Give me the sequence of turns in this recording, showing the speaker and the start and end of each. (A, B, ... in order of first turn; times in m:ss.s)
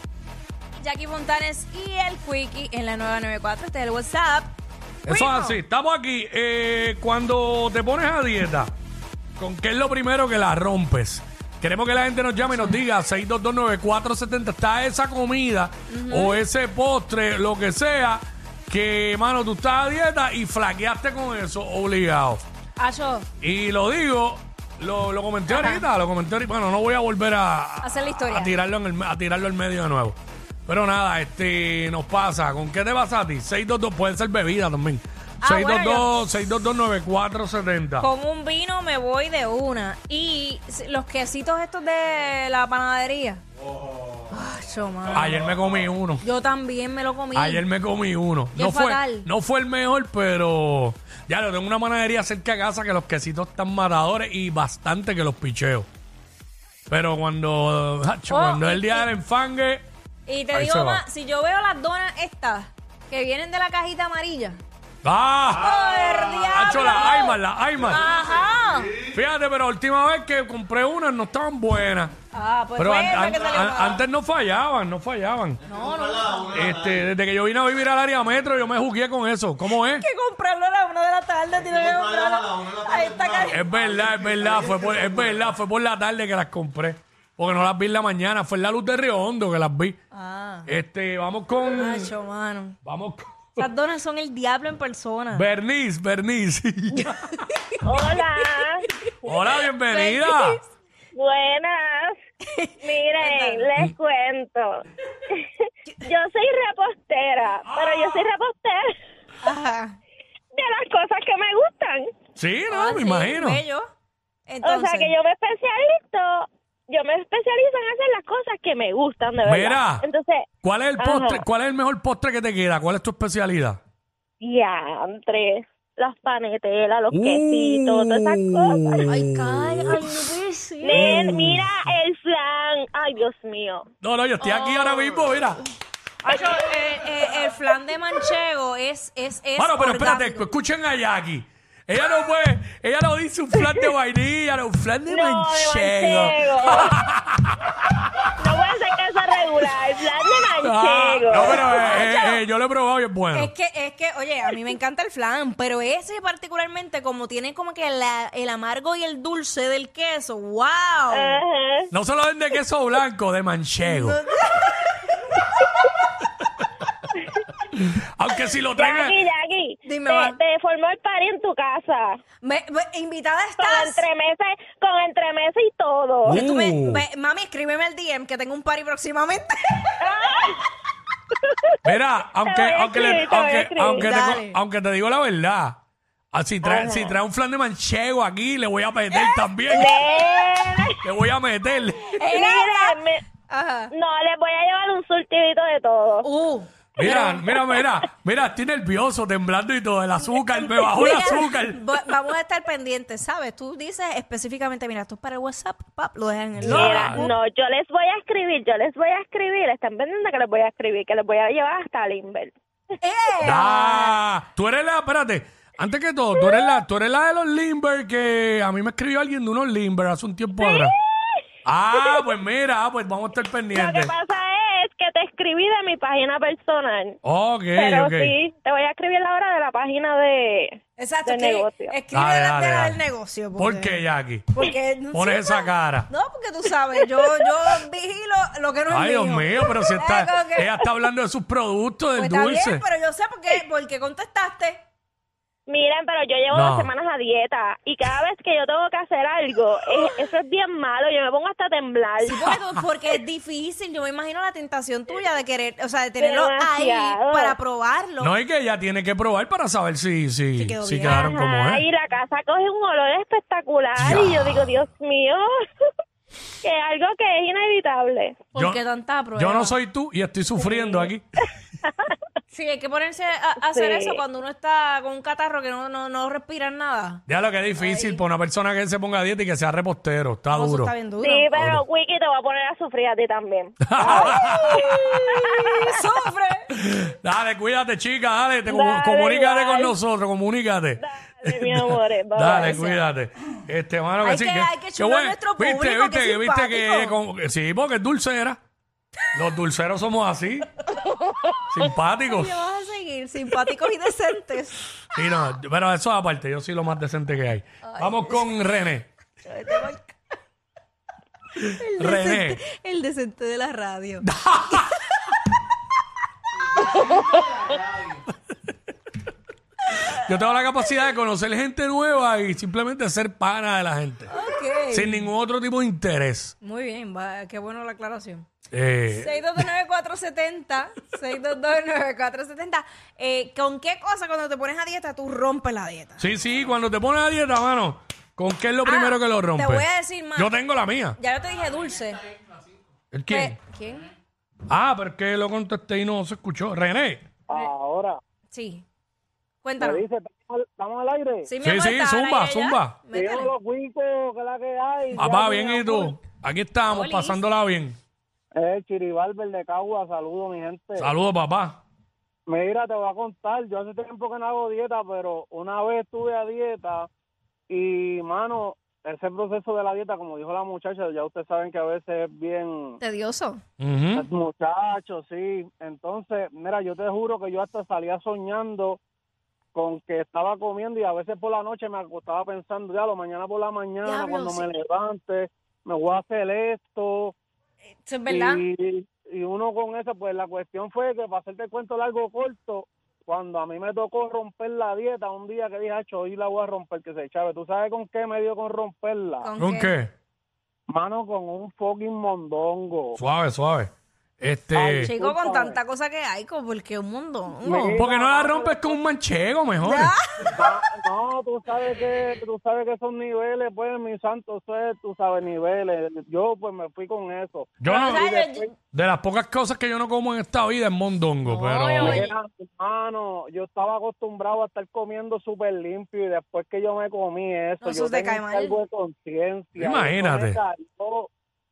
0:00.8-0:04.5 A
0:05.1-0:08.7 B
0:05.1-0:05.6 A
0:09.4-0:22.4 B
0:15.9-0:16.4 A
0:22.8-0:23.3 A
0:23.4-0:38.1 B
0:25.5-0:25.9 A
0:27.8-0:28.6 A
0:35.4-0:36.1 A
0:38.0-0:43.4 A
0:44.3-0:45.5 A
0:45.1-0:46.2 B
0:46.2-0:47.7 A
0:47.3-0:55.9 B
0:48.6-0:49.3 A
0:56.9-0:59.9 B
0:58.3-0:59.1 A
1:00.3-1:04.6 A
1:00.5-1:01.0 B
1:05.0-1:05.8 B
1:05.6-1:09.0 A
1:06.5-1:08.0 B
1:09.0-1:12.1 B
1:12.3-1:14.0 A
1:12.8-1:15.6 B
1:15.6-1:16.7 A
1:16.5-1:20.0 B
1:19.7-1:23.7 A
1:23.5-1:30.0 B
1:30.1-1:30.7 A
1:30.7-1:32.1 B
1:31.6-1:32.8 A
1:32.8-1:33.7 B
1:33.6-1:35.5 A
1:35.3-1:37.4 B
1:37.0-1:38.5 A
1:37.8-1:39.3 C
1:39.2-1:40.6 B
1:39.9-1:40.7 A
1:41.2-1:42.2 C
1:42.5-1:43.7 A
1:42.8-1:45.5 C
1:46.0-1:48.9 C
1:49.4-1:49.9 A
1:50.5-1:52.1 C
1:52.4-1:53.6 B
1:52.7-1:53.9 A
1:54.5-1:55.2 A
1:54.6-2:00.5 C
1:59.4-2:00.1 B
2:00.6-2:03.8 B
2:01.0-2:01.4 C
2:04.4-2:09.1 C
2:07.1-2:10.0 B
2:09.1-2:11.2 A
2:10.8-2:13.9 C
2:10.9-2:11.7 B
2:14.0-2:15.6 B
2:14.4-2:15.3 A
2:16.2-2:20.5 A
2:16.3-2:16.6 C
2:19.6-2:28.1 B
2:25.1-2:27.0 C
2:28.4-2:32.1 C
2:30.6-2:33.5 B
2:31.5-2:32.4 A
2:33.3-2:41.4 A
2:41.1-2:41.9 C
2:41.9-2:44.2 B
2:43.8-2:45.5 A
2:47.7-2:49.2 B
2:48.8-2:52.2 C
2:49.8-2:50.4 A
2:52.4-2:54.1 A
2:53.6-2:56.4 C
2:56.2-2:57.0 B
2:56.3-3:00.0 A
3:00.0-3:00.6 C
3:01.8-3:05.8 B
3:02.4-3:04.1 C
3:03.9-3:04.6 A
3:06.3-3:10.0 B
3:06.6-3:07.2 C
3:09.1-3:09.5 A
3:09.7-3:11.0 C
3:11.0-3:12.2 B
3:12.1-3:13.0 A
3:12.3-3:13.2 C
3:13.5-3:13.9 A
3:13.9-3:16.3 C
3:16.2-3:17.3 A
3:17.0-3:21.8 B
3:17.0-3:17.9 C
3:20.2-3:27.4 A
3:26.6-3:27.3 B
3:26.6-3:32.6 C
3:33.0-3:34.2 A
3:33.4-3:40.9 B
3:40.6-3:41.4 C
3:41.6-3:44.1 B
3:42.0-3:42.2 C
3:43.7-3:47.2 C
3:47.2-3:48.4 B
3:47.8-3:52.0 C
3:51.0-4:00.7 A
3:52.1-3:53.0 B
3:53.6-3:54.5 B
3:55.1-3:56.1 B
3:58.9-4:02.8 B
4:02.1-4:04.8 A
4:05.7-4:12.6 C
4:06.5-4:06.9 B
4:12.2-4:18.3 A
4:16.2-4:17.6 C
4:18.2-4:21.8 B
4:20.6-4:21.3 A
4:21.0-4:25.9 C
4:24.0-4:24.7 B
4:26.6-4:28.4 C
4:28.5-4:29.8 A
4:29.4-4:31.2 B
4:30.6-4:31.1 C
4:31.9-4:32.1 C
4:32.5-4:37.2 A
4:33.6-4:34.2 C
4:37.3-4:40.9 B
4:37.8-4:38.2 A
4:40.5-4:41.5 A
4:41.2-4:45.9 C
4:41.5-4:41.8 B
4:43.9-4:45.2 B
4:44.0-4:46.7 A
4:46.7-4:58.6 B
4:48.6-4:50.0 C
4:51.0-4:52.9 C
4:52.6-4:53.0 A
4:54.2-4:57.2 A
4:59.3-5:00.7 B
5:01.7-5:02.6 B
5:02.2-5:04.8 A
5:05.1-5:09.1 B
5:07.8-5:08.6 A
5:09.4-5:10.2 A
5:11.6-5:15.3 A
5:12.0-5:12.6 B
5:14.2-5:15.0 B
5:16.9-5:17.2 A
5:20.1-5:24.3 B
5:24.3-5:25.3 A
5:24.9-5:26.6 B
5:26.6-5:28.5 A
5:28.7-5:29.6 B
5:29.1-5:36.3 A
5:36.2-5:41.2 B
5:38.8-5:40.6 A
5:41.2-5:42.2 A
5:43.1-5:43.6 B
5:43.3-5:44.1 A
5:44.7-5:47.2 B
5:47.5-5:48.2 D
5:48.5-5:48.8 A
5:49.6-5:50.0 A
5:49.8-5:51.5 D
5:51.5-5:53.5 A
5:51.6-5:53.0 B
5:53.1-5:56.2 D
5:55.2-5:58.0 B
5:56.9-5:57.4 A
5:58.6-6:01.1 D
6:01.0-6:01.8 B
6:02.5-6:07.1 D
6:07.7-6:13.0 D
6:13.0-6:13.6 A
6:13.8-6:14.2 B
6:14.2-6:19.0 D
6:19.7-6:27.3 D
6:24.0-6:24.7 A
6:28.0-6:28.6 A
6:28.3-6:39.5 D
6:39.4-6:40.0 A
6:39.6-6:40.1 B
6:40.9-6:43.2 D
6:43.2-6:45.1 B
6:44.7-6:45.8 D
6:45.0-6:48.1 A
6:47.6-6:49.0 D
6:47.9-6:50.1 B
6:49.8-6:50.6 A
6:50.5-6:58.7 D
6:57.8-6:58.2 B
6:57.8-6:58.7 A
6:58.9-7:02.3 B
7:01.4-7:02.4 A
7:02.0-7:11.3 D
7:07.8-7:08.8 A
7:09.8-7:10.6 B